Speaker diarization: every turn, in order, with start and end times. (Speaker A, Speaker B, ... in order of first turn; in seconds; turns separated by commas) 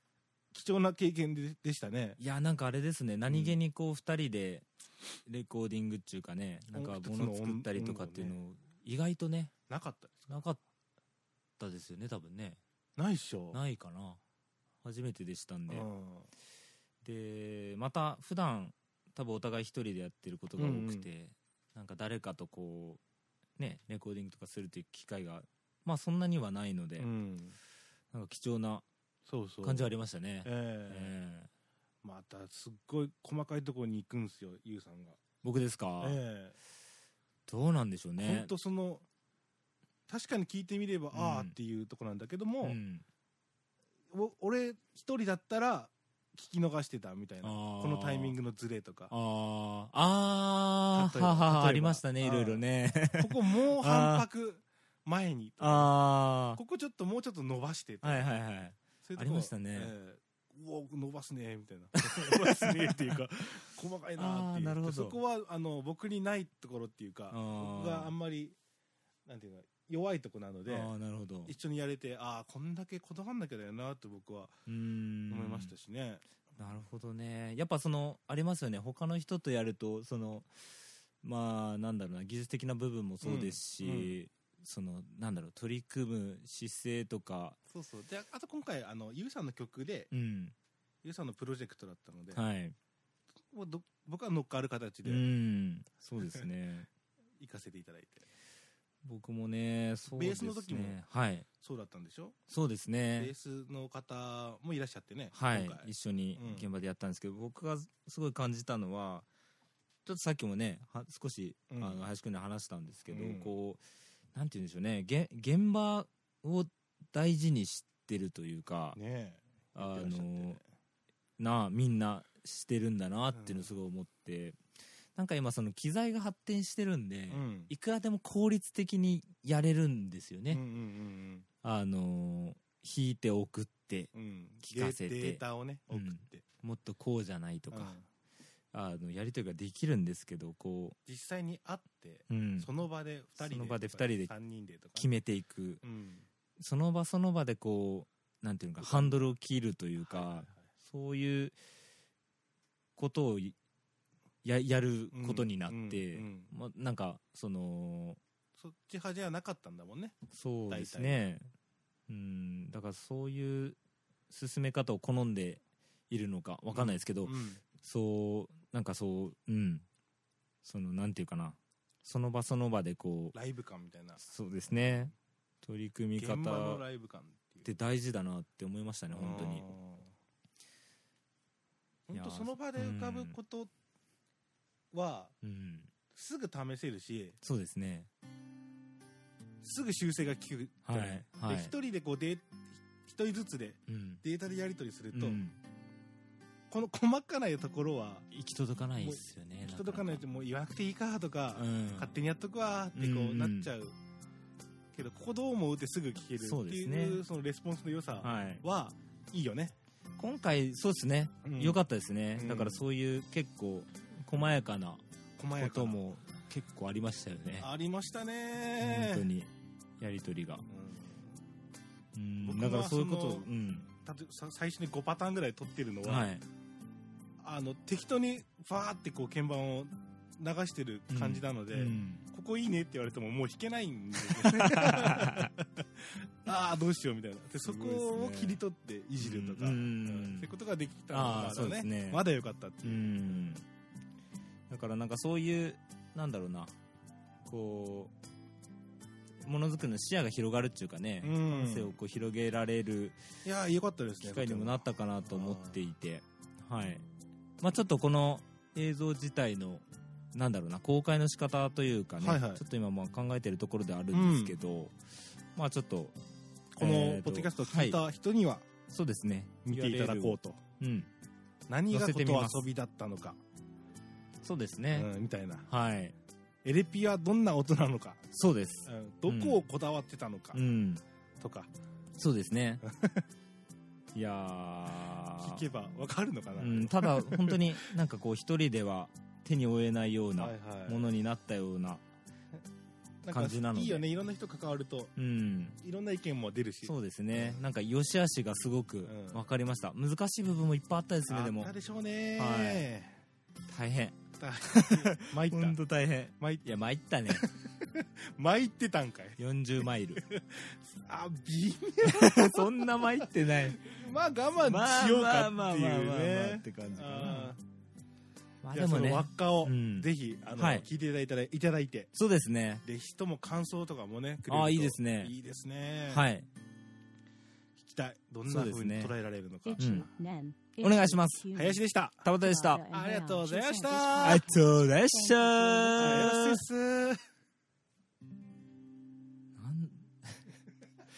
Speaker A: 0.5-2.2, Speaker B: 2.2-4.7, Speaker A: 3.3-3.6, Speaker B: 5.3-9.5, Speaker A: 6.7-8.4, Speaker A: 9.7-10.4, Speaker B: 10.3-10.6, Speaker B: 11.6-12.6, Speaker A: 13.0-13.6, Speaker B: 13.5-14.2, Speaker B: 14.8-15.9, Speaker A: 15.7-16.3, Speaker B: 17.0-23.0, Speaker A: 20.6-21.1, Speaker B: 23.6-27.1, Speaker A: 27.0-27.6, Speaker B: 28.1-28.9, Speaker A: 29.3-29.9, Speaker B: 29.6-31.5, Speaker A: 30.4-31.1, Speaker A: 32.0-35.2, Speaker B: 35.4-36.2, Speaker A: 36.0-36.5, Speaker B: 37.5-38.5, Speaker A: 38.2-39.0, Speaker A: 40.1-42.8, Speaker B: 41.1-41.6, Speaker B: 42.6-43.0, Speaker A: 44.1-49.1, Speaker B: 47.4-48.4, Speaker B: 49.1-54.3, Speaker A: 50.9-56.0, Speaker B: 55.6-56.6, Speaker A: 56.5-58.3, Speaker B: 58.0-59.9, Speaker A: 59.0-68.6, Speaker B: 62.0-63.2, Speaker B: 64.2-65.2, Speaker B: 67.3-68.1, Speaker A: 69.3-70.9, Speaker B: 70.7-71.5, Speaker A: 71.5-74.5, Speaker B: 74.7-75.8, Speaker A: 75.3-76.2, Speaker B: 76.6-87.6, Speaker A: 83.2-84.2, Speaker A: 87.7-90.1, Speaker B: 90.1-90.5, Speaker A: 91.0-92.4, Speaker B: 92.3-92.8, Speaker A: 93.5-95.3, Speaker B: 95.0-96.9, Speaker A: 97.4-98.3, Speaker B: 99.0-101.5, Speaker A: 100.1-101.0, Speaker A: 101.6-102.4, Speaker B: 102.5-103.3, Speaker A: 103.2-106.7, Speaker B: 105.3-109.3, Speaker B: 110.0-113.8, Speaker A: 111.7-112.0, Speaker A: 113.1-113.5, Speaker B: 114.3-119.0, Speaker A: 119.0-120.6, Speaker B: 119.8-120.6, Speaker B: 121.4-124.6, Speaker A: 123.3-123.7, Speaker B: 125.2-130.6, Speaker A: 127.3-127.7, Speaker A: 130.5-131.5, Speaker B: 131.6-134.1, Speaker A: 134.1-136.4, Speaker B: 134.6-138.0, Speaker A: 137.7-138.1, Speaker B: 138.7-141.0, Speaker A: 141.1-145.2, Speaker B: 142.3-142.7, Speaker B: 143.4-144.3, Speaker B: 145.0-145.8, Speaker A: 145.8-146.3, Speaker B: 146.6-151.6, Speaker A: 148.8-149.2, Speaker A: 150.0-150.7, Speaker B: 153.0-153.6, Speaker B: 154.4-158.2, Speaker A: 155.1-156.5, Speaker A: 158.6-160.2, Speaker B: 160.3-161.5, Speaker A: 160.7-161.2, Speaker B: 162.1-163.8, Speaker B: 164.3-169.8, Speaker A: 166.7-167.6, Speaker B: 170.6-173.3, Speaker A: 173.3-174.2, Speaker B: 174.2-176.8, Speaker A: 176.2-177.7, Speaker B: 177.6-179.7, Speaker A: 179.1-180.1, Speaker A: 182.1-183.7, Speaker B: 182.1-183.4, Speaker A: 184.9-185.3, Speaker B: 185.4-185.9, Speaker A: 186.1-187.4, Speaker B: 187.4-188.1, Speaker A: 189.6-195.4, Speaker B: 190.8-191.7, Speaker B: 193.9-194.2, Speaker B: 195.1-195.6, Speaker A: 196.7-198.3, Speaker B: 198.3-200.2, Speaker A: 199.0-203.9, Speaker B: 201.6-202.1, Speaker B: 202.9-203.7, Speaker A: 204.9-209.8, Speaker B: 206.4-207.2, Speaker B: 208.2-208.6, Speaker B: 210.2-215.0, Speaker A: 211.4-211.8, Speaker A: 212.4-212.8, Speaker A: 215.4-216.0, Speaker B: 215.6-217.7, Speaker A: 217.6-219.3, Speaker B: 218.8-220.6, Speaker A: 220.7-221.3, Speaker B: 222.2-223.9, Speaker A: 222.4-223.5, Speaker A: 224.1-226.3, Speaker B: 226.0-226.4, Speaker A: 227.4-243.5, Speaker B: 231.1-232.2, Speaker B: 234.2-235.5, Speaker B: 237.6-238.6, Speaker B: 239.2-240.5, Speaker B: 241.1-242.2, Speaker B: 242.8-243.7, Speaker B: 244.7-246.7, Speaker B: 247.4-248.1, Speaker B: 249.4-253.2, Speaker A: 251.2-251.9, Speaker A: 253.4-255.8, Speaker B: 254.2-257.1, Speaker B: 257.6-265.0, Speaker A: 262.2-262.6, Speaker A: 264.1-264.6, Speaker B: 265.6-266.1, Speaker A: 266.7-268.7, Speaker B: 266.8-268.0, Speaker B: 268.9-271.1, Speaker A: 269.7-270.6, Speaker A: 271.7-273.4, Speaker B: 271.9-272.7, Speaker B: 274.4-275.1, Speaker A: 274.9-275.7, Speaker B: 275.7-276.2, Speaker A: 276.6-278.2, Speaker B: 278.3-279.6, Speaker A: 278.9-280.6, Speaker B: 280.5-281.0, Speaker A: 281.4-281.7, Speaker B: 282.2-282.8, Speaker A: 282.8-283.2, Speaker B: 284.1-285.6, Speaker A: 285.4-287.8, Speaker B: 286.6-292.0, Speaker A: 290.4-291.1, Speaker A: 293.2-295.1, Speaker B: 293.3-294.1, Speaker B: 295.2-295.8, Speaker A: 295.8-297.6, Speaker B: 296.8-301.7, Speaker A: 299.1-299.4, Speaker A: 301.3-303.2, Speaker B: 302.4-302.9, Speaker B: 303.7-307.5, Speaker A: 304.4-305.8, Speaker A: 306.4-306.6, Speaker A: 307.3-317.6, Speaker B: 309.4-310.2, Speaker B: 312.0-313.8, Speaker B: 314.6-317.5, Speaker B: 318.6-320.9, Speaker A: 318.7-322.1, Speaker B: 322.1-322.8, Speaker A: 322.8-326.3, Speaker B: 324.5-325.3, Speaker B: 326.1-326.5, Speaker A: 327.8-330.1, Speaker B: 328.5-329.1, Speaker C: 329.6-336.4, Speaker B: 329.8-330.1, Speaker B: 330.8-331.5, Speaker A: 331.5-332.3, Speaker B: 332.2-332.8, Speaker A: 332.9-334.5, Speaker B: 334.2-336.6, Speaker A: 336.0-337.2, Speaker B: 339.6-340.4